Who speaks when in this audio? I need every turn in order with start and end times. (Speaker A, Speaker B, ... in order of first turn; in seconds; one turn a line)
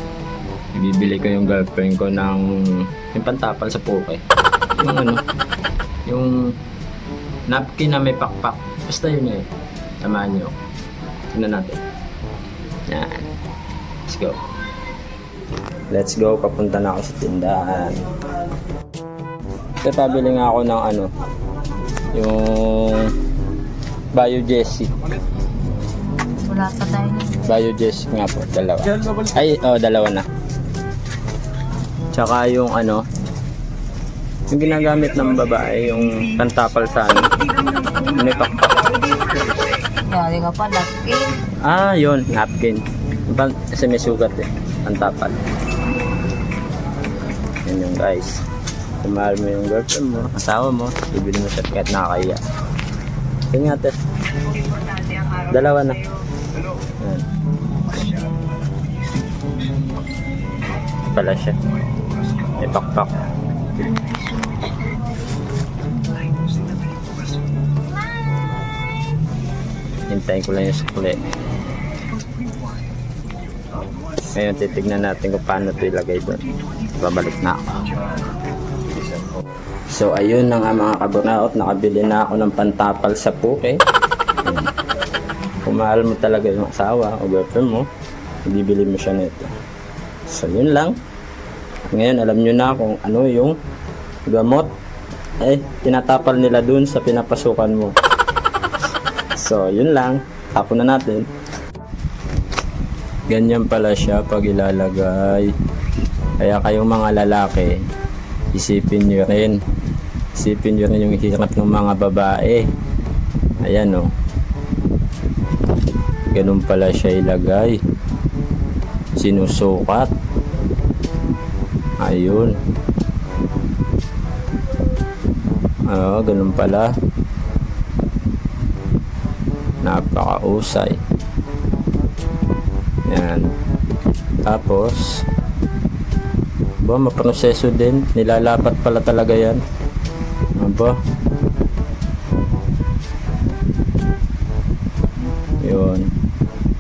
Speaker A: 0.7-4.2
Speaker A: 4.8-5.2
Speaker A: 6.1-6.5
Speaker A: 7.5-9.5
Speaker A: 10.0-10.6
Speaker A: 11.3-11.8
Speaker A: 12.9-13.3
Speaker A: 14.1-14.4
Speaker A: 15.9-18.0
Speaker A: 19.8-21.1
Speaker A: 22.1-23.1
Speaker A: 24.1-24.9
Speaker B: 26.4-27.5
Speaker A: 27.4-30.3
Speaker A: 32.1-33.0
Speaker A: 34.5-37.3
Speaker A: 37.9-39.1
Speaker B: 40.0-41.4
Speaker A: 41.6-45.4
Speaker A: 47.7-48.4
Speaker A: 49.0-52.4
Speaker A: 53.5-54.0
Speaker A: 55.3-56.0
Speaker A: 57.0-57.3
Speaker A: 61.1-61.6
Speaker A: 62.4-63.2
Speaker B: 63.9-64.6
Speaker A: 70.1-71.2
Speaker A: 74.2-77.8
Speaker A: 79.9-83.8
Speaker A: 84.5-84.7
Speaker A: 85.6-87.9
Speaker A: 88.5-89.5
Speaker A: 90.3-91.0
Speaker A: 91.9-93.6
Speaker A: 94.3-94.7
Speaker A: 95.4-98.0
Speaker A: 99.4-101.3
Speaker A: 103.3-105.5
Speaker A: 106.4-107.8
Speaker A: 108.5-109.6
Speaker A: 110.3-112.7
Speaker A: 113.6-114.1
Speaker A: 116.3-117.8
Speaker A: 119.2-120.1
Speaker A: 122.0-122.6
Speaker A: 125.9-126.9
Speaker A: 129.8-131.0
Speaker A: 133.1-133.5
Speaker A: 134.4-135.2
Speaker A: 136.8-139.6
Speaker A: 140.6-141.0
Speaker A: 145.6-146.1